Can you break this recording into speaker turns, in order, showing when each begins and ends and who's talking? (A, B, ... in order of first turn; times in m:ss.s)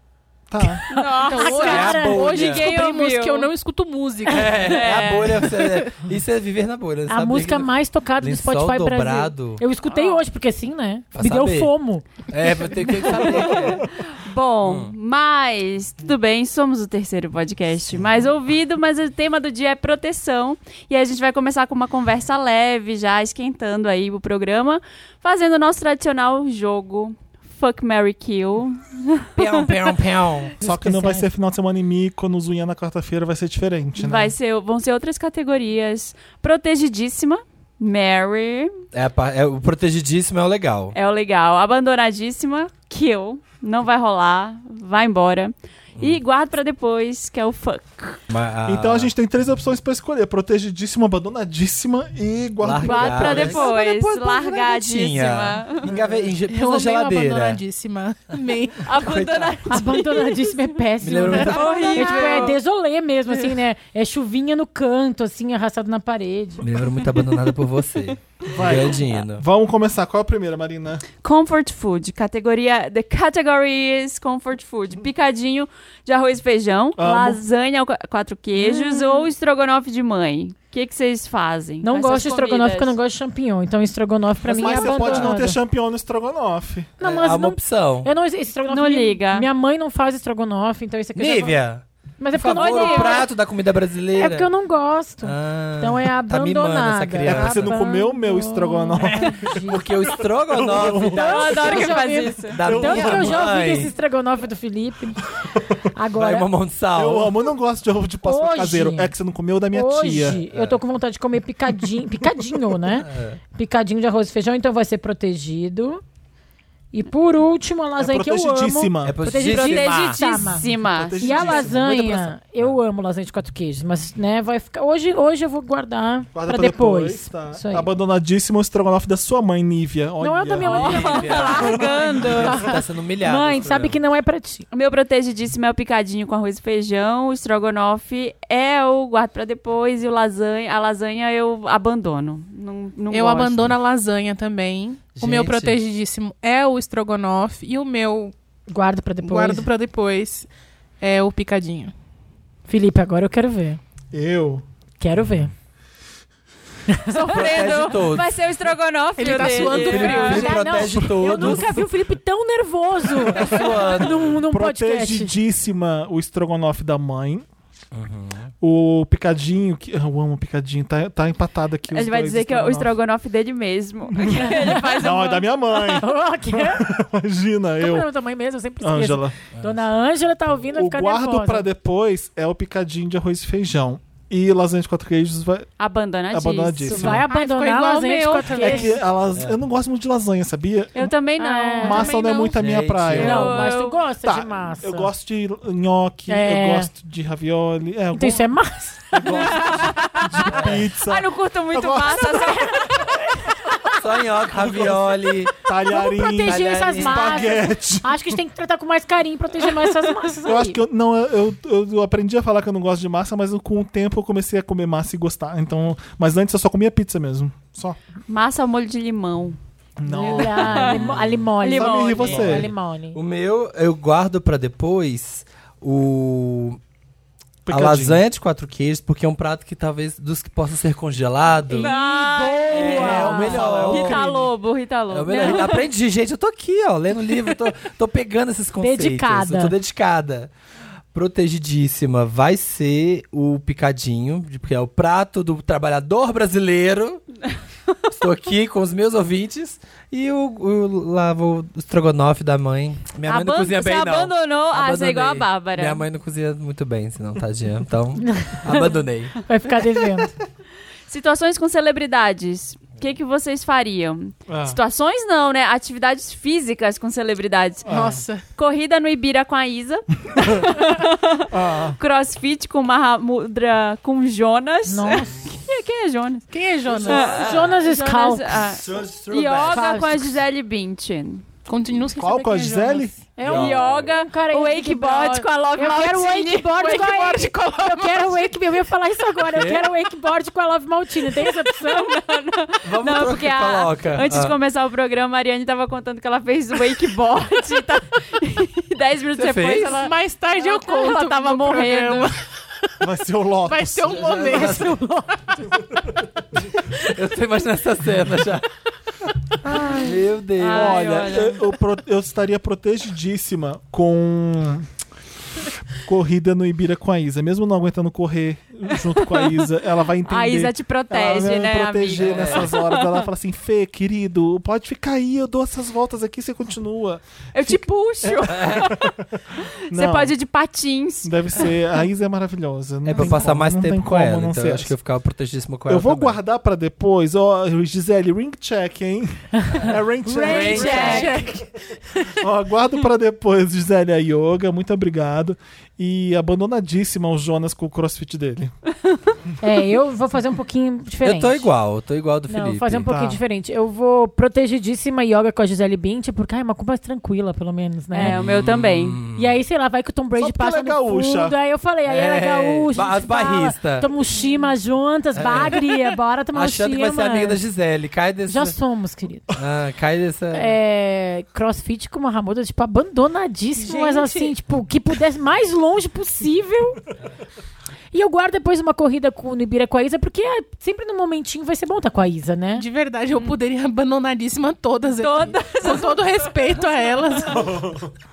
0:00.5-0:00.8 A
0:00.6-0:02.4 B
0:00.9-0:03.5 C
0:01.2-0:04.8 D
0:01.6-0:02.7 E
0:04.3-0:09.6 E
0:04.6-0:05.6 C
0:07.1-0:12.1 B
0:09.9-0:10.2 C
0:11.2-0:11.7 E
0:12.3-0:13.9 E
0:13.1-0:29.7 C
0:14.7-0:14.9 E
0:29.4-0:30.5 E
0:30.6-0:31.3 B
0:30.6-0:34.4 A
0:34.0-0:38.8 C
0:38.9-0:41.0 E
0:40.9-0:48.2 C
0:48.3-0:49.1 E
0:48.7-0:53.7 A
0:52.6-0:57.6 E
0:52.8-0:55.9 C
0:55.8-0:56.4 A
0:56.5-0:58.9 D
0:58.8-1:00.7 C
0:58.9-0:59.6 E
0:59.7-1:06.6 B
1:01.0-1:02.3 E
1:01.3-1:02.6 C
1:06.6-1:09.4 E
1:08.5-1:11.0 A
1:11.2-1:23.0 C
1:17.0-1:17.4 A
1:18.6-1:19.3 B
1:21.8-1:25.6 B
1:24.4-1:26.9 A
1:24.7-1:25.1 C
1:27.0-1:28.1 E
1:27.0-1:31.6 B
1:28.7-1:29.5 C
1:31.2-1:34.5 E
1:32.2-1:33.2 B
1:32.5-1:33.3 C
1:34.1-1:39.8 B
1:35.2-1:37.8 E
1:37.2-1:39.9 A
1:39.6-1:42.0 E
1:40.5-1:41.6 A
1:41.1-1:42.6 C
1:41.2-1:45.2 B
1:42.5-1:43.9 E
1:42.6-1:43.6 A
1:45.8-1:46.5 B
1:46.2-1:47.3 E
1:47.0-1:50.4 A
1:48.2-1:49.2 B
1:49.7-1:56.0 B
1:50.4-1:50.8 E
1:52.9-1:53.4 E
1:56.9-2:00.7 B
1:58.0-1:59.2 A
1:59.0-2:00.2 E
1:59.4-2:01.5 C
2:00.8-2:02.4 A
2:01.2-2:07.9 B
2:06.3-2:12.0 A
2:10.2-2:14.7 B
2:10.6-2:14.0 E
2:10.8-2:12.7 C
2:14.7-2:23.7 C
2:23.1-2:28.4 D
2:25.2-2:25.8 E
2:28.7-2:29.7 B
2:29.2-2:30.5 D
2:31.0-2:31.9 D
2:32.7-2:33.8 B
2:34.1-2:34.6 A
2:35.0-2:35.5 B
2:36.9-2:37.2 B
2:37.1-2:40.4 C
2:37.3-2:38.3 E
2:39.2-2:41.0 D
2:39.4-2:41.8 E
2:40.0-2:45.4 B
2:41.0-2:41.6 A
2:43.2-2:44.4 E
2:44.4-2:47.4 A
2:47.9-2:48.5 E
2:48.6-2:52.9 A
2:51.9-2:55.9 C
2:54.1-2:58.1 A
2:56.0-2:56.8 B
2:57.8-3:01.7 B
2:58.8-2:59.4 A
3:00.7-3:05.7 A
3:05.8-3:07.2 C
3:06.3-3:07.3 A
3:06.9-3:09.0 B
3:07.3-3:09.0 D
3:08.6-3:11.1 A
3:11.0-3:12.4 C
3:11.4-3:12.1 B
3:11.8-3:13.7 A
3:11.9-3:12.5 D
3:12.4-3:13.6 E
3:13.2-3:15.1 B
3:13.2-3:14.0 C
3:14.2-3:18.5 A
3:16.3-3:16.9 B
3:18.2-3:19.6 B
3:19.2-3:23.0 A
3:19.3-3:19.8 E
3:19.6-3:23.2 C
3:20.4-3:20.8 E
3:24.0-3:25.5 E
3:24.5-3:28.4 A
3:25.8-3:30.8 B
3:26.5-3:27.5 E
3:30.4-3:38.0 A
3:38.3-3:39.6 C
3:40.0-3:41.0 A
3:40.1-3:43.2 B
3:40.3-3:41.1 C
3:40.8-3:41.3 E
3:41.6-3:42.5 C
3:41.6-3:42.7 A
3:42.4-3:46.8 E
3:47.6-3:48.2 A
3:47.7-3:51.9 E
3:51.7-3:54.3 B
3:51.8-3:55.9 C
3:52.7-3:54.5 E
3:53.6-3:54.0 A
3:55.1-4:00.5 E
3:58.8-3:59.8 B
4:01.1-4:07.3 E
4:08.1-4:19.4 E
4:13.3-4:16.0 C
4:18.2-4:18.6 B
4:19.4-4:20.3 B
4:21.1-4:27.9 C
4:24.5-4:24.8 A
4:27.9-4:28.2 A
4:27.9-4:28.4 D
4:28.6-4:36.5 C
4:30.4-4:30.6 A
4:31.5-4:32.0 A
4:34.9-4:35.5 B
4:36.5-4:37.4 D
4:37.0-4:41.4 C
4:37.1-4:38.8 B
4:38.9-4:40.0 E
4:39.7-4:40.3 B
4:41.7-4:43.1 D
4:42.2-4:43.1 A
4:43.4-4:52.1 B
4:43.4-4:44.1 E
4:43.4-4:47.5 C
4:46.9-4:48.4 D
4:49.6-4:49.9 E
4:51.5-5:02.4 C
4:52.8-4:54.6 E
4:59.4-5:00.0 E
5:00.0-5:02.9 D
5:03.0-5:04.2 A
5:03.7-5:04.9 D
5:04.1-5:05.0 E
5:04.3-5:05.6 B
5:06.9-5:08.7 E
5:09.7-5:11.5 E
5:10.6-5:11.6 C
5:10.7-5:14.9 A
5:15.9-5:29.1 A
5:18.9-5:19.6 C
5:20.3-5:23.3 C
5:22.1-5:22.7 E
5:27.5-5:31.8 C
5:28.5-5:28.9 E
5:29.9-5:30.3 A
5:31.2-5:35.0 A
5:33.0-5:36.4 E
5:35.9-5:41.3 A
5:39.8-5:41.6 B
5:40.4-5:41.3 E
5:40.5-5:41.5 C
5:42.3-5:48.7 A
5:49.6-5:51.7 B
5:51.2-5:53.1 E
5:52.5-5:58.4 B
5:53.1-5:53.4 A
5:58.1-5:59.2 C
5:58.2-5:59.6 E
5:59.4-6:07.6 B
6:00.4-6:01.6 A
6:02.1-6:04.2 E
6:05.4-6:05.9 E
6:06.5-6:08.8 E
6:08.5-6:09.5 B
6:09.5-6:10.8 E
6:10.5-6:17.0 B
6:13.8-6:14.5 D
6:18.1-6:22.9 B
6:22.7-6:27.8 D
6:25.2-6:26.8 C
6:27.5-6:28.1 A